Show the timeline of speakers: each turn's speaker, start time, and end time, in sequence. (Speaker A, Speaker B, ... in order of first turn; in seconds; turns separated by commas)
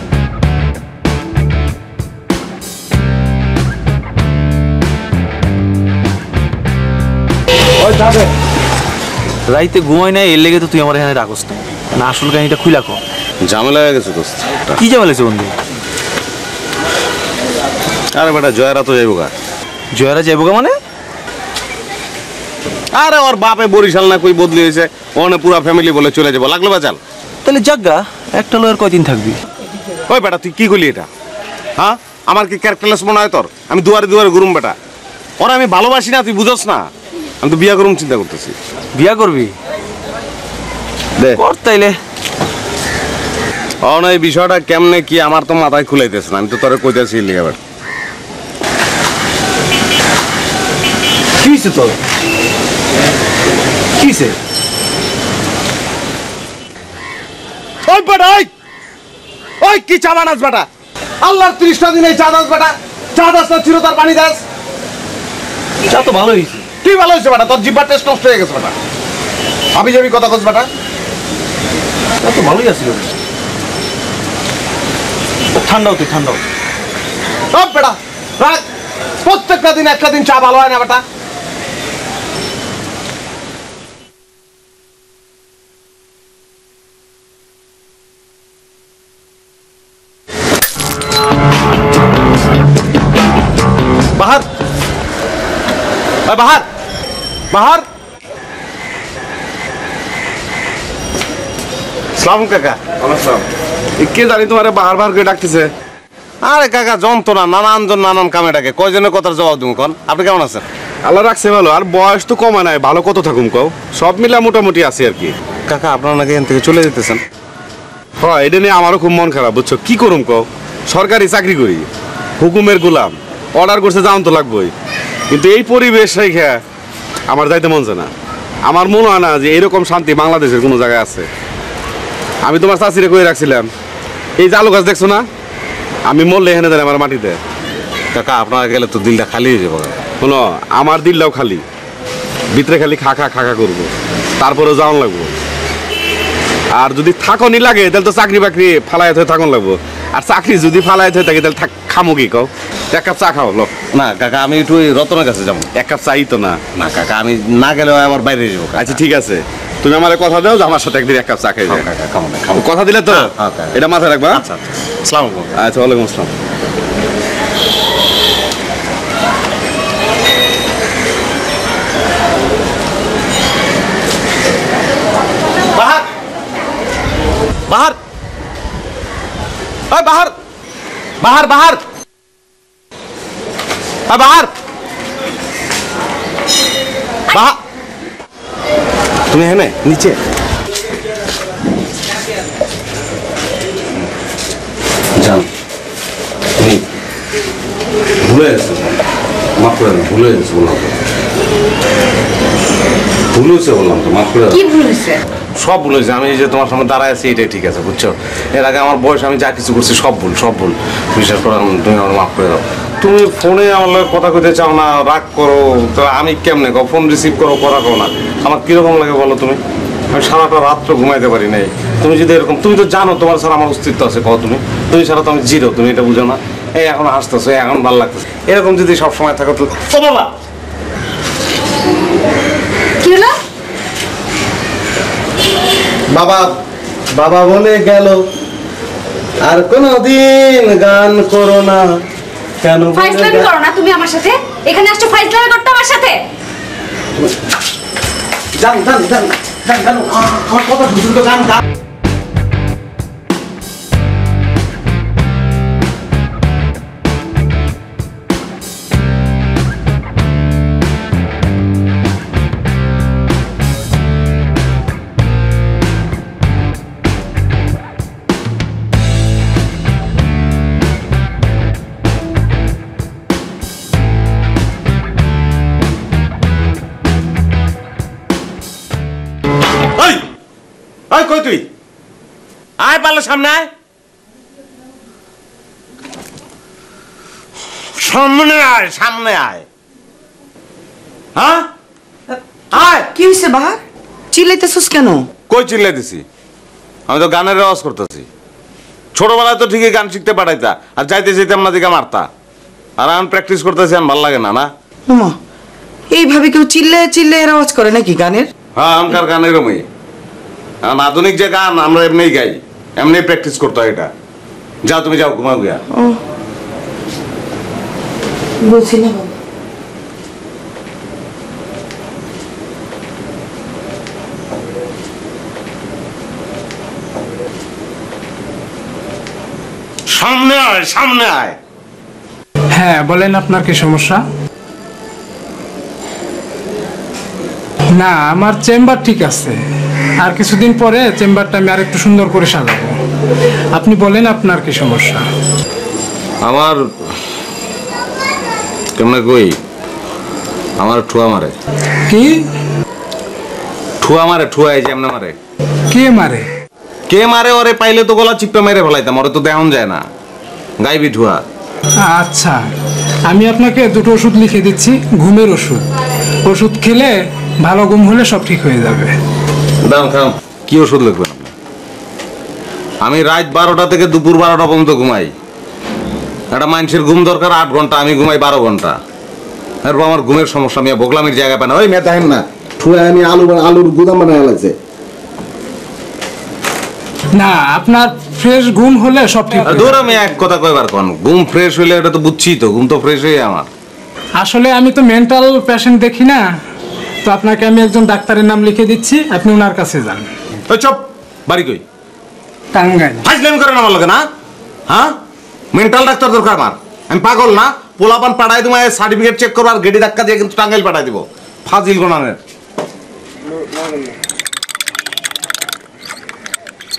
Speaker A: 7.8-8.3, Speaker B: 9.5-13.0, Speaker A: 13.4-14.8, Speaker B: 14.8-15.5, Speaker A: 18.1-19.3, Speaker B: 19.9-20.7, Speaker A: 22.9-27.0, Speaker B: 27.4-29.4, Speaker A: 30.1-31.1, Speaker A: 31.8-34.8, Speaker A: 35.4-36.8, Speaker A: 37.4-38.5, Speaker B: 39.0-39.5, Speaker B: 41.4-42.0, Speaker A: 43.8-47.6, Speaker B: 51.4-52.0, Speaker B: 54.0-54.3, Speaker A: 57.9-58.5, Speaker A: 59.6-60.7, Speaker A: 61.2-64.4, Speaker B: 65.9-66.6, Speaker A: 66.8-68.7, Speaker A: 69.7-70.7, Speaker B: 72.2-73.1, Speaker B: 75.6-76.4, Speaker A: 77.5-78.6, Speaker A: 79.2-81.0, Speaker A: 94.2-94.4, Speaker A: 96.2-96.6, Speaker A: 97.5-97.8, Speaker A: 102.2-103.4, Speaker C: 104.0-105.7, Speaker A: 106.4-110.6, Speaker C: 111.0-115.3, Speaker A: 115.7-117.2, Speaker C: 118.2-121.9, Speaker C: 122.4-124.7, Speaker C: 125.3-126.6, Speaker C: 127.3-128.1, Speaker C: 128.7-131.3, Speaker C: 132.4-133.7, Speaker C: 134.4-135.2, Speaker C: 136.1-137.4, Speaker A: 138.1-140.0, Speaker C: 140.2-141.6, Speaker C: 142.5-145.3, Speaker C: 146.7-153.7, Speaker A: 153.9-155.7, Speaker C: 155.8-156.6, Speaker A: 156.8-159.0, Speaker C: 158.8-161.8, Speaker A: 161.7-163.8, Speaker C: 162.6-164.4, Speaker A: 164.3-165.5, Speaker C: 165.6-166.3, Speaker A: 175.7-176.0, Speaker A: 177.7-177.9, Speaker A: 179.9-180.3, Speaker A: 181.2-181.8, Speaker A: 184.1-184.5, Speaker A: 189.3-190.2, Speaker A: 195.2-195.5, Speaker A: 196.6-196.8, Speaker A: 198.2-198.9, Speaker A: 199.6-200.9, Speaker A: 203.3-204.6, Speaker D: 204.5-205.2, Speaker A: 205.6-219.6, Speaker A: 220.1-230.3, Speaker D: 233.0-233.3, Speaker A: 236.1-236.5, Speaker A: 237.2-238.2, Speaker A: 239.4-242.0, Speaker A: 242.6-243.5, Speaker D: 242.9-246.2, Speaker A: 248.5-251.6, Speaker A: 279.9-280.2, Speaker A: 281.1-281.7, Speaker A: 282.8-283.7, Speaker A: 288.0-289.6, Speaker A: 291.4-291.7, Speaker A: 292.7-293.1, Speaker E: 293.0-293.8, Speaker E: 294.3-295.3, Speaker A: 295.5-296.2, Speaker A: 297.1-298.2, Speaker A: 299.1-302.3, Speaker A: 303.0-304.7, Speaker E: 305.1-305.3, Speaker E: 306.1-308.5, Speaker A: 308.8-309.8, Speaker A: 310.8-314.1, Speaker A: 314.9-315.8, Speaker E: 315.9-316.2, Speaker E: 318.6-319.4, Speaker A: 330.1-331.6, Speaker F: 332.7-334.2, Speaker F: 338.0-339.6, Speaker F: 340.2-342.9, Speaker F: 343.7-345.2, Speaker A: 346.4-346.8, Speaker A: 348.9-349.6, Speaker A: 350.8-351.5, Speaker F: 352.1-352.4, Speaker A: 354.0-355.3, Speaker F: 355.9-356.4, Speaker A: 357.1-360.0, Speaker A: 360.8-361.4, Speaker F: 362.1-362.6, Speaker F: 363.3-365.8, Speaker F: 366.4-369.1, Speaker A: 369.8-371.5, Speaker A: 373.0-375.3, Speaker A: 376.5-379.0, Speaker A: 379.8-384.7, Speaker F: 387.4-390.0, Speaker A: 389.6-393.7, Speaker F: 394.4-396.4, Speaker F: 397.2-400.3, Speaker A: 400.7-401.8, Speaker F: 402.7-403.2, Speaker A: 403.2-404.2, Speaker A: 404.9-405.1, Speaker A: 405.7-412.4